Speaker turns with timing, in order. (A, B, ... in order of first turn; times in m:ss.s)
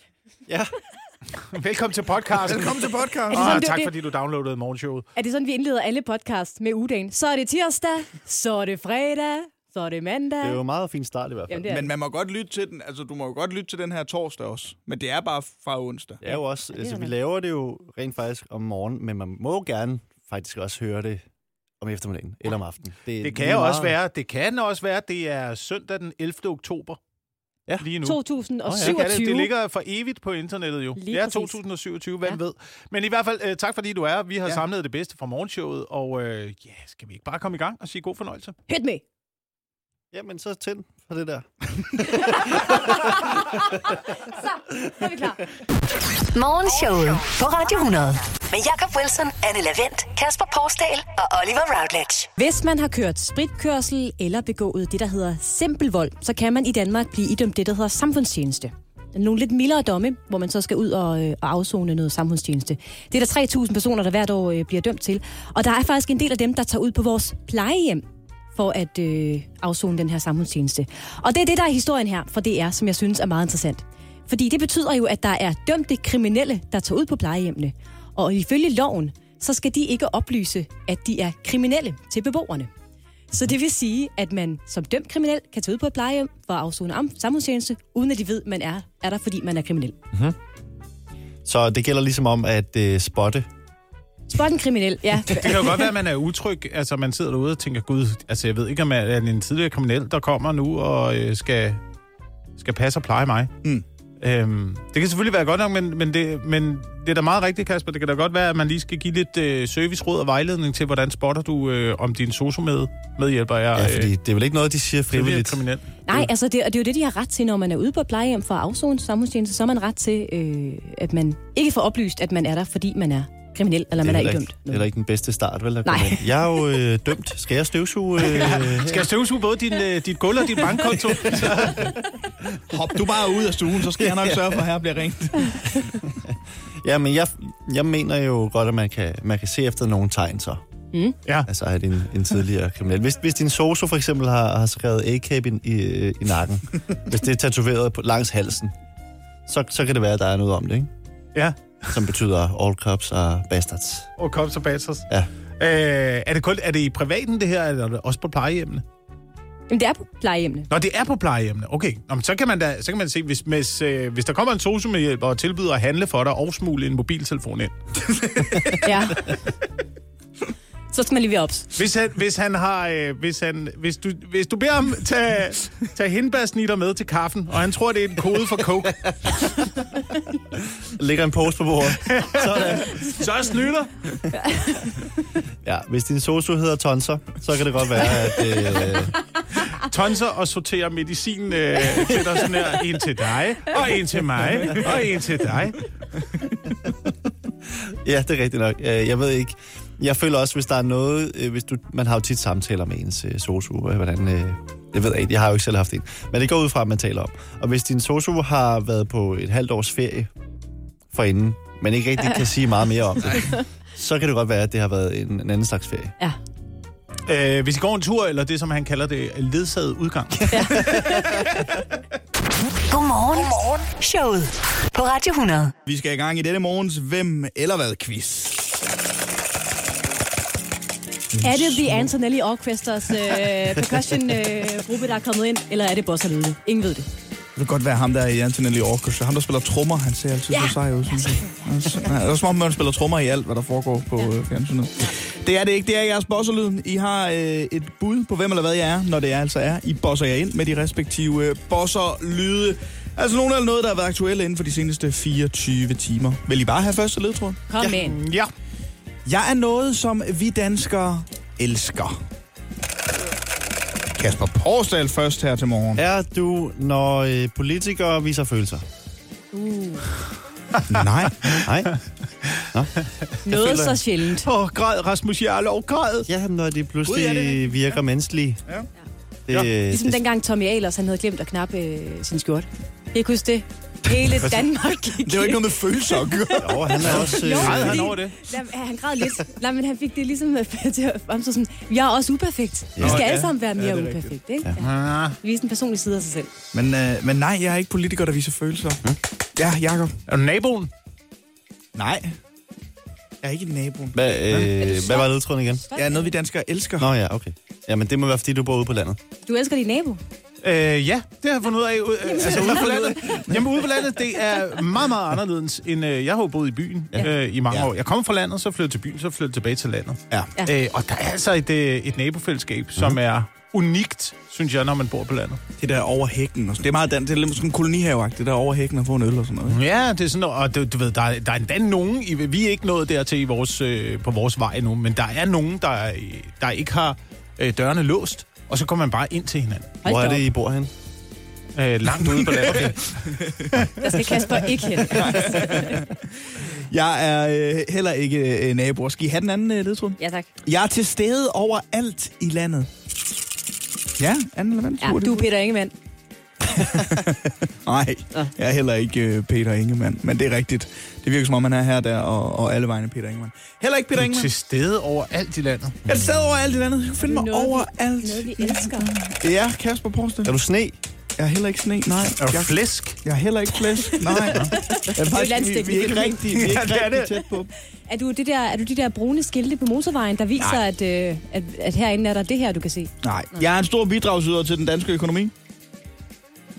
0:00.5-0:00.7 A
0:01.4-0:05.0 B
0:02.4-0:03.6 C
0:03.3-0:03.9 D
0:05.2-0:10.6 D
0:10.4-0:11.6 A
0:11.5-0:11.9 D
0:11.6-0:16.2 C
0:16.2-0:21.2 A
0:16.2-0:17.1 D
0:21.8-0:23.9 A
0:23.2-0:27.0 B
0:27.8-0:28.2 B
0:28.0-0:29.5 D
0:28.6-0:29.0 A
0:28.7-0:38.5 B
0:31.0-0:31.5 D
0:38.7-0:39.0 D
0:40.1-0:43.7 A
0:44.3-0:45.4 D
0:46.2-0:52.3 E
0:52.4-1:08.0 D
1:08.5-1:22.7 D
1:23.3-1:30.0 D
1:31.4-1:33.4 A
1:34.3-1:35.9 D
1:35.3-1:41.8 B
1:42.6-1:43.5 B
1:44.2-1:54.1 B
1:53.8-1:56.3 A
1:55.1-1:55.8 B
1:56.0-2:04.8 D
2:04.0-2:09.1 A
2:05.8-2:06.2 D
2:08.3-2:12.0 B
2:10.9-2:11.9 A
2:12.7-2:16.0 C
2:14.0-2:14.6 A
2:16.0-2:20.6 A
2:21.5-2:28.7 A
2:29.5-2:30.9 A
2:31.3-2:32.0 B
2:31.9-2:34.1 A
2:34.2-2:35.1 B
2:35.6-2:38.8 B
2:39.7-2:40.7 D
2:40.7-2:47.7 B
2:48.8-2:49.4 D
2:50.9-2:51.7 D
2:51.8-2:59.1 B
3:00.8-3:03.1 A
3:02.0-3:04.2 B
3:05.6-3:09.1 A
3:09.5-3:15.9 B
3:17.7-3:30.3 A
3:31.1-3:36.1 A
3:37.2-3:41.4 B
3:40.5-3:41.2 D
3:42.9-3:45.7 E
3:45.8-3:48.7 C
3:51.4-3:51.9 C
3:51.4-3:57.1 D
3:57.6-4:17.6 C
4:00.5-4:01.4 D
4:17.7-4:18.2 D
4:17.9-4:18.5 B
4:19.2-4:22.2 C
4:24.2-4:26.0 C
4:25.9-4:28.8 A
4:29.5-4:30.0 D
4:30.9-4:31.6 C
4:31.6-4:31.9 A
4:33.4-4:34.5 D
4:33.5-4:36.3 B
4:36.3-4:38.6 A
4:37.0-4:37.8 C
4:39.5-4:40.2 A
4:39.8-4:56.5 D
4:45.2-4:47.2 C
4:46.6-4:48.1 A
4:47.0-4:48.4 B
4:53.0-4:53.3 A
4:53.0-4:54.3 C
4:54.8-4:55.4 B
4:56.7-4:59.0 C
4:59.6-5:00.2 C
5:00.3-5:00.9 B
5:01.9-5:02.4 C
5:03.4-5:04.9 C
5:04.1-5:05.8 A
5:04.7-5:06.3 D
5:05.9-5:07.1 C
5:07.0-5:09.2 A
5:09.4-5:10.2 D
5:10.6-5:25.6 B
5:12.5-5:13.6 C
5:25.8-5:29.8 C
5:29.7-5:40.0 B
5:40.0-5:40.5 D
5:40.0-5:40.9 A
5:41.8-5:43.3 B
5:42.4-5:43.7 C
5:42.7-5:42.9 A
5:44.0-5:45.9 D
5:45.0-5:52.9 C
5:50.2-5:50.5 D
5:54.2-5:55.5 C
5:55.0-5:55.9 D
5:56.7-6:04.5 C
6:04.1-6:06.0 B
6:06.0-6:10.5 C
6:07.2-6:09.1 D
6:10.4-6:11.0 A
6:11.4-6:17.7 C
6:12.4-6:13.2 B
6:13.9-6:17.5 D
6:14.4-6:14.7 B
6:18.1-6:23.7 D
6:23.2-6:25.5 C